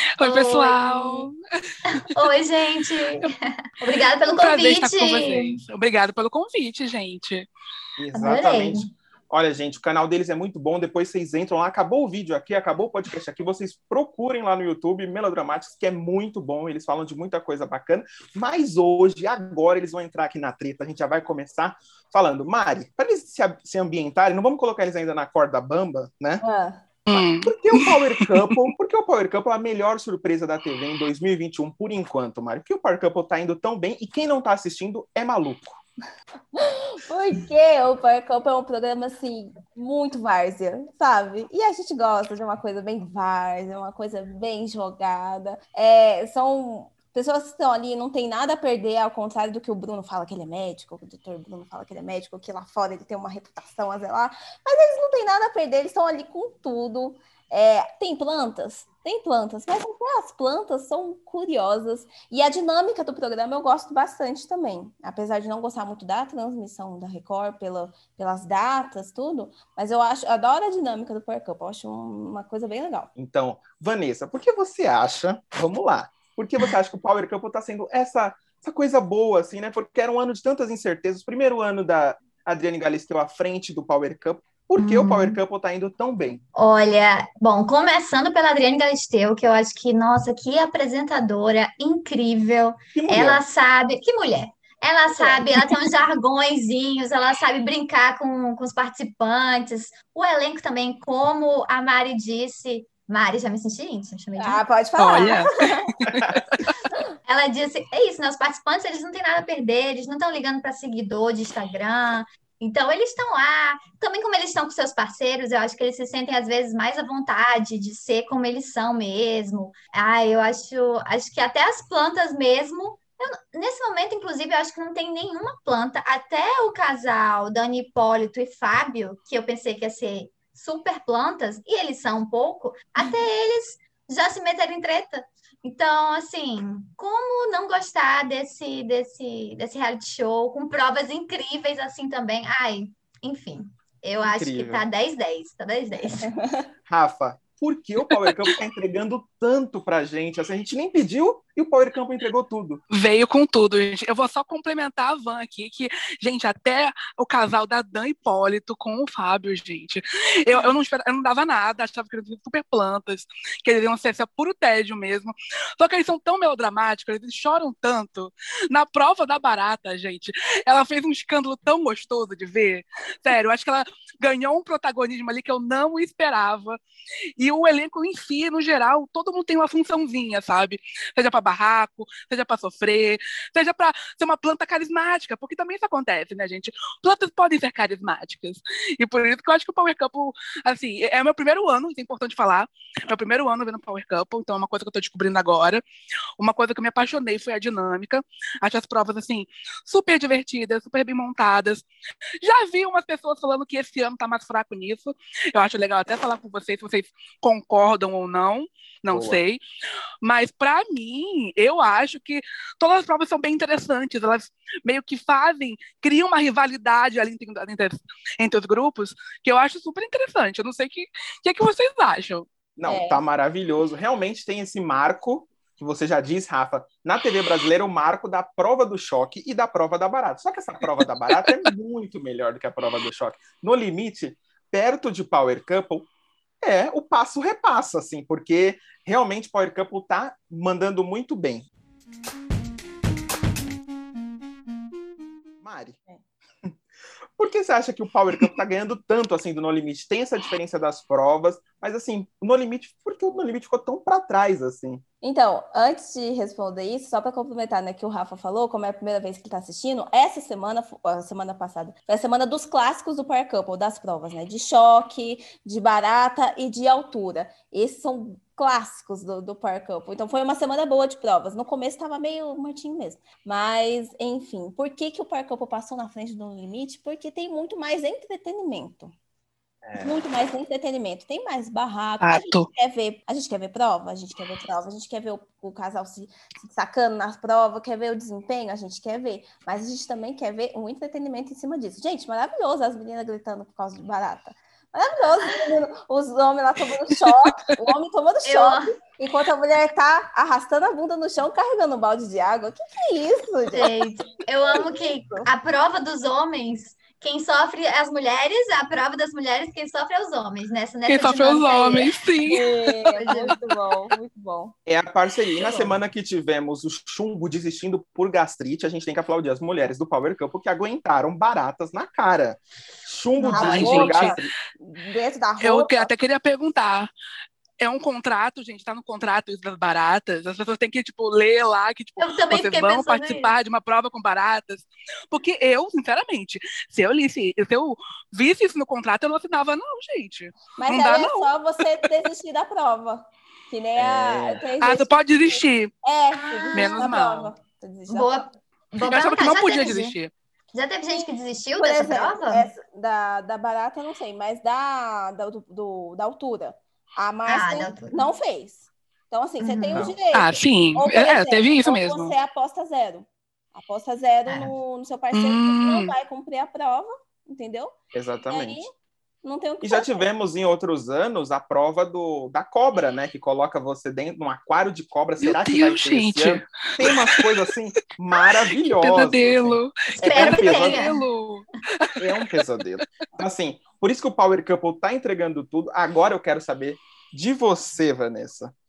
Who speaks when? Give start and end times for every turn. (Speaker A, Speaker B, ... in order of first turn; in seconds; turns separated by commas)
Speaker A: 0.2-1.3, Speaker B: 0.2-1.2, Speaker B: 1.9-5.6, Speaker A: 4.2-7.5, Speaker C: 8.0-26.4, Speaker B: 8.1-8.9, Speaker D: 26.4-26.8, Speaker A: 27.1-28.6, Speaker C: 27.1-35.8, Speaker D: 36.5-73.1, Speaker C: 73.2-86.4, Speaker B: 84.8-85.4, Speaker B: 86.5-104.6, Speaker C: 92.9-93.4, Speaker D: 95.1-95.5, Speaker D: 104.4-105.9, Speaker A: 105.0-106.7, Speaker B: 107.2-146.3, Speaker C: 144.2-144.8, Speaker D: 146.2-146.7, Speaker C: 146.9-152.8, Speaker A: 148.2-148.5, Speaker A: 152.9-176.8, Speaker A: 177.4-195.8, Speaker A: 196.4-201.8, Speaker A: 202.4-209.6, Speaker C: 209.1-209.4, Speaker A: 210.2-222.5, Speaker C: 222.8-236.1, Speaker D: 222.8-223.2, Speaker C: 236.6-241.7, Speaker C: 245.6-246.0, Speaker C: 247.4-255.0, Speaker D: 255.2-279.1, Speaker C: 279.8-280.2, Speaker D: 280.0-303.9, Speaker A: 282.2-282.7, Speaker B: 298.4-298.9, Speaker B: 303.7-312.1, Speaker D: 304.7-305.5, Speaker A: 311.1-312.8, Speaker D: 312.5-314.7, Speaker B: 313.1-313.5, Speaker C: 314.9-324.5, Speaker D: 315.6-316.0, Speaker B: 323.4-323.9, Speaker D: 323.4-326.1, Speaker A: 323.5-324.4, Speaker A: 325.6-327.1, Speaker A: 327.8-341.5, Speaker B: 332.2-333.5, Speaker D: 340.8-348.5, Speaker C: 344.0-344.6, Speaker A: 344.8-345.9, Speaker B: 346.3-347.1, Speaker A: 346.7-347.5, Speaker B: 348.1-350.1, Speaker A: 349.0-350.3, Speaker B: 350.7-352.7, Speaker D: 351.1-367.9, Speaker B: 357.5-358.2, Speaker B: 359.6-360.1, Speaker A: 360.3-362.3, Speaker B: 364.5-364.7, Speaker A: 365.3-366.1, Speaker C: 368.1-368.9, Speaker D: 368.5-368.9, Speaker D: 369.4-370.2, Speaker C: 369.8-381.0, Speaker A: 375.4-377.6, Speaker A: 378.4-382.4, Speaker B: 380.2-381.2, Speaker C: 382.2-388.7